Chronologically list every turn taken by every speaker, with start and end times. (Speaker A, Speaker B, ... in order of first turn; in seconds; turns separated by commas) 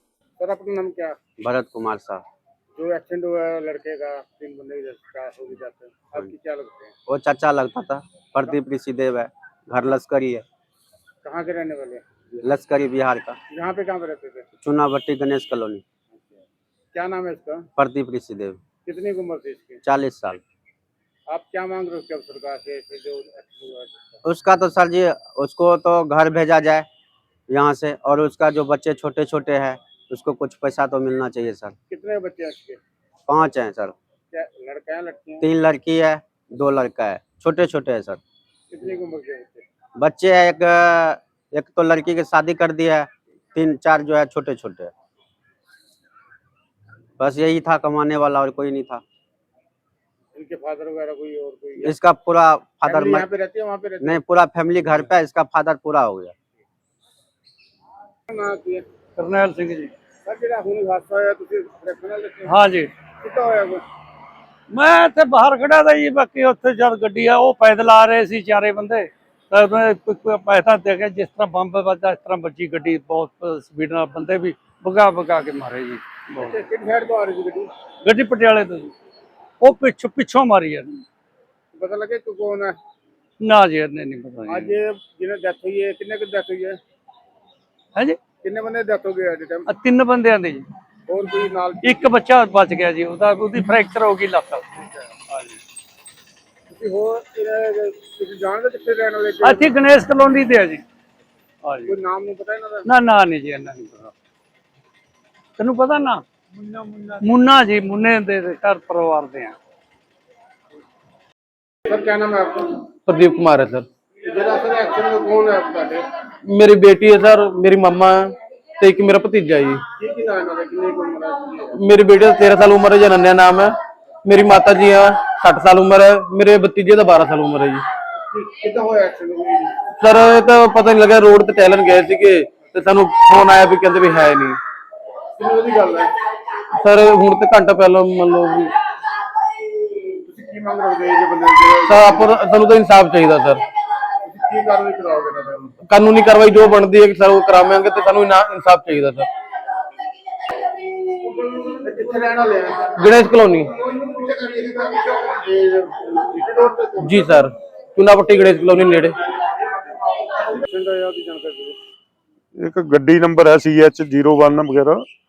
Speaker A: 0.4-1.2, Speaker B: 1.4-2.2, Speaker A: 2.8-6.9, Speaker B: 7.1-10.4, Speaker A: 11.2-12.1, Speaker B: 12.4-13.4, Speaker A: 13.5-14.5, Speaker B: 14.6-15.8, Speaker A: 16.9-17.7, Speaker B: 17.8-18.6, Speaker A: 18.9-19.8, Speaker B: 19.8-20.4, Speaker A: 21.3-24.1, Speaker B: 24.2-26.9, Speaker B: 27.5-31.8, Speaker A: 31.9-32.8, Speaker B: 33.3-34.0, Speaker A: 34.3-35.4, Speaker B: 35.4-38.2, Speaker A: 38.7-39.6, Speaker B: 40.0-44.9, Speaker B: 47.2-49.0, Speaker A: 50.3-51.9, Speaker B: 51.8-53.3, Speaker A: 52.9-54.2, Speaker B: 54.0-56.3, Speaker A: 58.3-58.8, Speaker C: 59.2-59.9, Speaker A: 60.3-62.6, Speaker C: 62.5-62.9, Speaker A: 63.2-63.8, Speaker C: 64.7-76.6, Speaker A: 76.4-77.7, Speaker C: 78.0-78.9, Speaker C: 79.6-81.0, Speaker A: 81.7-82.8, Speaker C: 83.4-84.7, Speaker A: 84.5-86.8, Speaker A: 88.4-89.7, Speaker C: 89.7-90.7, Speaker A: 91.1-92.1, Speaker C: 91.8-95.6, Speaker A: 96.7-99.8, Speaker C: 99.4-100.8, Speaker C: 101.6-101.9, Speaker A: 101.8-102.9, Speaker C: 102.8-104.1, Speaker C: 105.6-109.5, Speaker A: 111.8-112.8, Speaker D: 113.0-113.9, Speaker A: 114.2-116.1, Speaker D: 116.4-119.8, Speaker A: 119.9-121.7, Speaker D: 121.7-127.8, Speaker A: 128.3-129.8, Speaker D: 130.0-134.6, Speaker A: 135.4-136.1, Speaker D: 136.7-138.7, Speaker A: 139.8-142.3, Speaker D: 141.8-143.6, Speaker A: 144.2-145.8, Speaker D: 145.8-149.3, Speaker A: 151.2-153.0, Speaker D: 153.0-153.7, Speaker A: 153.8-157.4, Speaker D: 157.0-159.2, Speaker A: 160.1-161.8, Speaker E: 162.6-165.1